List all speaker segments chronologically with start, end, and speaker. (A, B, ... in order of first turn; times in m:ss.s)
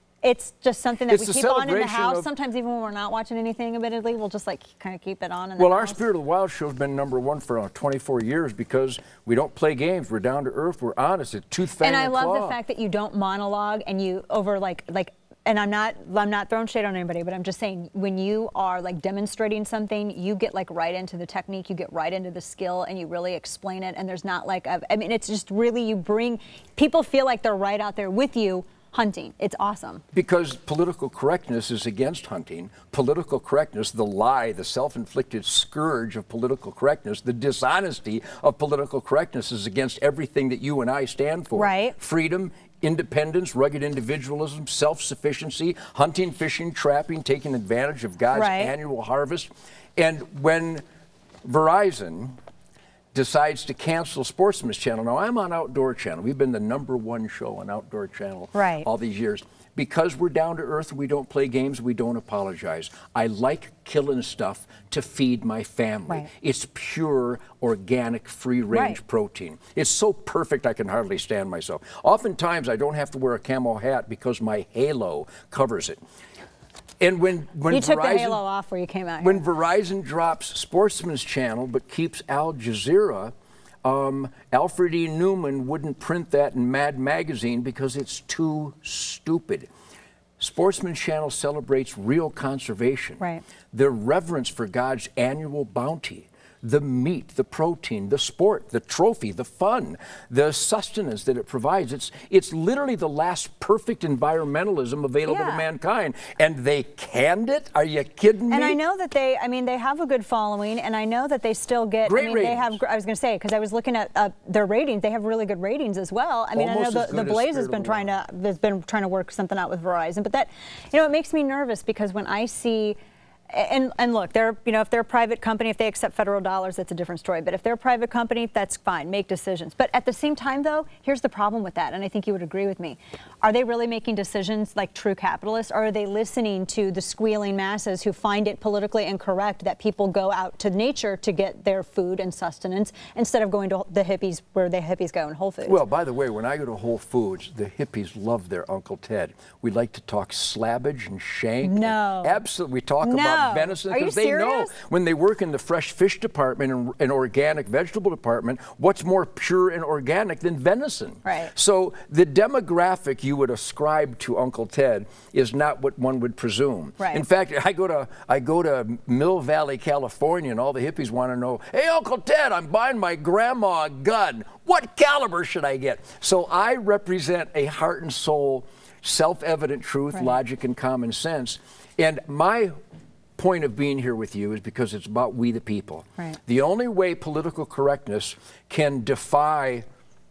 0:00.2-0:06.0 A
0:01.0-0:02.3 B
0:05.6-0:12.6 B
0:11.8-0:30.0 A
0:30.1-0:50.8 B
0:41.5-0:41.9 A
0:48.3-0:48.7 A
0:51.4-0:52.4 B
0:53.1-1:16.0 B
0:58.5-0:58.9 A
1:08.7-1:09.0 A
1:17.0-1:18.4 B
1:17.7-1:19.4 A
1:19.2-1:29.7 B
1:30.4-1:48.8 B
1:45.2-1:45.7 A
1:48.5-2:03.0 A
1:52.0-1:52.8 B
1:56.5-1:58.1 B
2:03.5-2:25.8 A
2:25.6-3:02.7 B
2:31.6-2:32.4 A
2:33.0-2:34.7 A
2:41.2-2:41.5 A
3:03.4-3:09.8 B